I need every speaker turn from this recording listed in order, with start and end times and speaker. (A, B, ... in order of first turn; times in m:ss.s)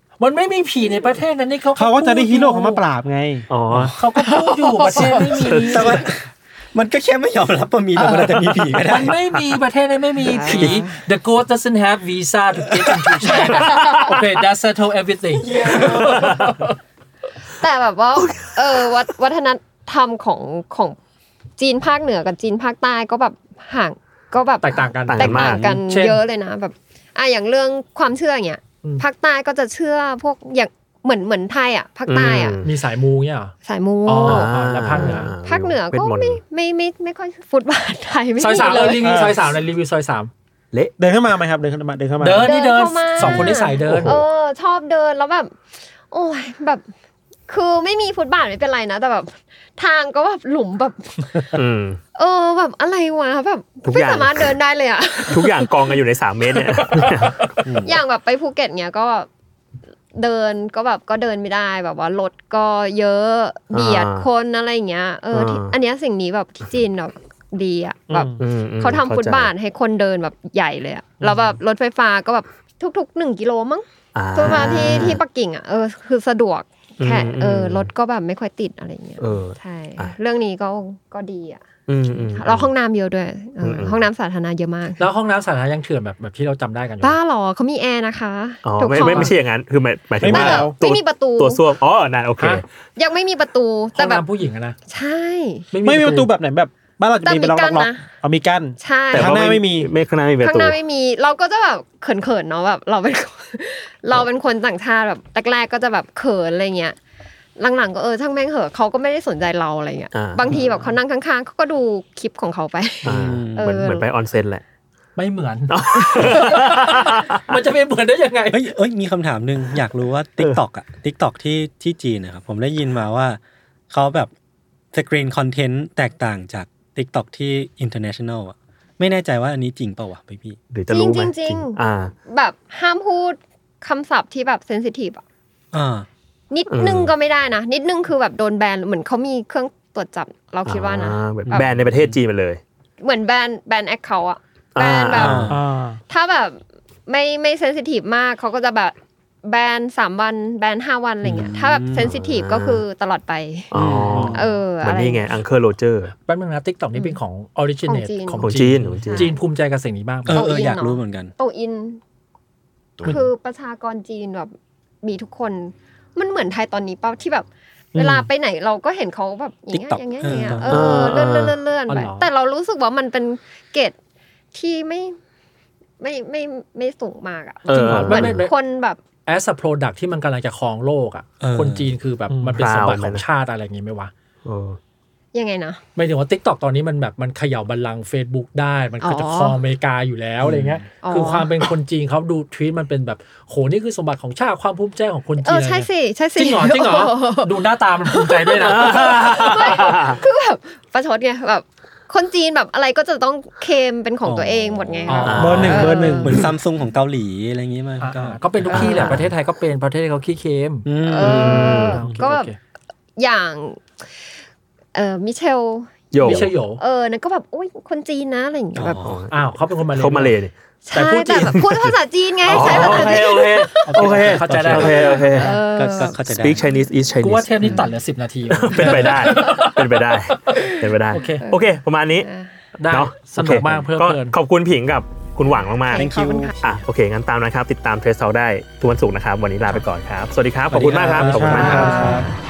0:00.2-0:02.8 A
0:01.7-0:03.9 B
0:03.5-0:04.0 C
0:04.0-0:06.1 A
0:04.9-0:09.2 D
0:05.0-0:06.0 C
0:08.8-0:16.7 A
0:10.2-0:11.0 E
0:10.6-0:10.8 C
0:12.8-0:13.4 D
0:13.4-0:14.2 C
0:15.4-0:16.3 D
0:16.0-0:16.4 C
0:17.6-0:21.0 E
0:18.2-0:18.9 C
0:21.6-0:32.6 E
0:24.6-0:26.2 A
0:25.1-0:25.8 C
0:32.1-0:32.7 C
0:32.6-0:33.5 A
0:33.6-0:39.2 E
0:34.0-0:35.3 A
0:34.2-0:36.4 C
0:38.4-0:40.3 A
0:38.9-0:39.4 B
0:41.0-0:42.5 B
0:42.2-0:44.2 A
0:42.4-0:45.5 E
0:43.2-0:44.2 C
0:46.1-0:46.8 E
0:47.5-0:51.6 E
0:51.5-0:52.0 C
0:52.1-0:55.9 E
0:53.8-0:54.5 C
0:55.3-0:57.4 C
0:57.0-0:57.4 A
0:57.6-0:58.0 D
0:57.8-0:59.3 E
1:00.1-1:21.6 E
1:03.7-1:04.2 C
1:05.3-1:05.7 C
1:08.1-1:08.4 B
1:08.4-1:09.5 C
1:14.1-1:15.2 C
1:17.0-1:17.9 C
1:19.2-1:20.1 C
1:21.9-1:22.7 C
1:22.2-1:25.0 E
1:23.6-1:24.0 C
1:25.0-1:27.2 A
1:27.0-1:29.3 E
1:28.6-1:32.6 C
1:29.0-1:29.3 A
1:30.2-1:30.8 B
1:30.2-1:31.6 E
1:33.0-1:34.2 E
1:34.0-1:34.8 A
1:34.9-1:35.7 E
1:35.7-1:36.3 A
1:35.8-1:39.9 B
1:37.2-1:38.0 E
1:38.8-1:39.4 E
1:39.1-1:40.8 C
1:40.4-1:47.0 E
1:47.6-1:54.1 E
1:50.1-1:50.4 C
1:53.0-1:54.6 C
1:53.0-1:53.8 D
1:55.2-1:58.7 A
1:55.7-1:57.4 C
1:58.5-2:04.3 D
2:04.9-2:10.6 D
2:10.7-2:12.1 C
2:10.9-2:15.2 E
2:15.7-2:16.1 D
2:16.5-2:21.7 E
2:16.7-2:17.1 C
2:20.6-2:22.6 C
2:21.4-2:22.1 D
2:23.0-2:25.6 E
2:24.8-2:25.5 C
2:25.1-2:25.6 D
2:25.5-2:26.0 B
2:26.1-2:33.7 E
2:31.2-2:32.1 D
2:32.0-2:32.8 C
2:33.7-2:36.1 C
2:33.7-2:34.4 D
2:34.1-2:34.4 A
2:34.3-2:35.4 E
2:36.3-2:40.4 A
2:37.8-2:39.4 E
2:38.4-2:39.3 C
2:40.3-2:41.3 D
2:40.3-2:42.0 E
2:43.0-2:54.0 E
2:47.9-2:48.3 B
2:49.7-2:51.0 D
2:50.7-2:51.6 C
2:51.9-2:52.3 A
2:54.5-2:55.2 E
2:56.0-2:59.0 E
2:57.7-2:58.5 C
2:57.7-2:58.6 A
2:59.2-3:04.1 A
3:01.4-3:01.9 D
3:02.3-3:02.6 B
3:02.6-3:03.2 C
3:04.4-3:04.8 C
3:05.3-3:05.8 E
3:06.0-3:19.9 A
3:09.0-3:09.6 E
3:10.4-3:10.9 D
3:11.0-3:11.7 E
3:15.4-3:26.4 E
3:18.6-3:20.2 C
3:24.2-3:29.3 D
3:25.1-3:25.9 A
3:25.1-3:26.5 C
3:25.4-3:26.4 B
3:28.0-3:30.9 A
3:28.7-3:29.1 E
3:28.8-3:29.2 C
3:30.8-3:31.8 D
3:31.0-3:32.5 E
3:31.2-3:32.0 C
3:31.8-3:32.6 A
3:33.2-3:34.0 E
3:34.9-3:39.1 E
3:36.1-3:36.5 C
3:36.2-3:36.8 A
3:38.8-3:39.2 D
3:39.0-3:39.3 C
3:39.3-3:40.4 A
3:39.9-3:40.5 C
3:40.8-3:46.6 E
3:40.9-3:41.6 A
3:41.4-3:41.9 C
3:42.4-3:45.5 C
3:42.5-3:45.6 A
3:44.5-3:44.8 D
3:45.4-3:46.6 D
3:46.4-3:47.6 C
3:47.2-3:49.8 A
3:47.6-3:47.8 D
3:48.5-3:52.3 C
3:50.5-3:51.7 E
3:51.1-3:51.4 A
3:52.2-3:52.5 E
3:52.8-3:54.3 A
3:52.9-3:56.1 C
3:55.9-3:56.5 E
3:55.9-3:56.8 D
3:56.6-4:02.0 C
4:00.7-4:02.2 D
4:01.2-4:02.3 B
4:01.5-4:02.3 E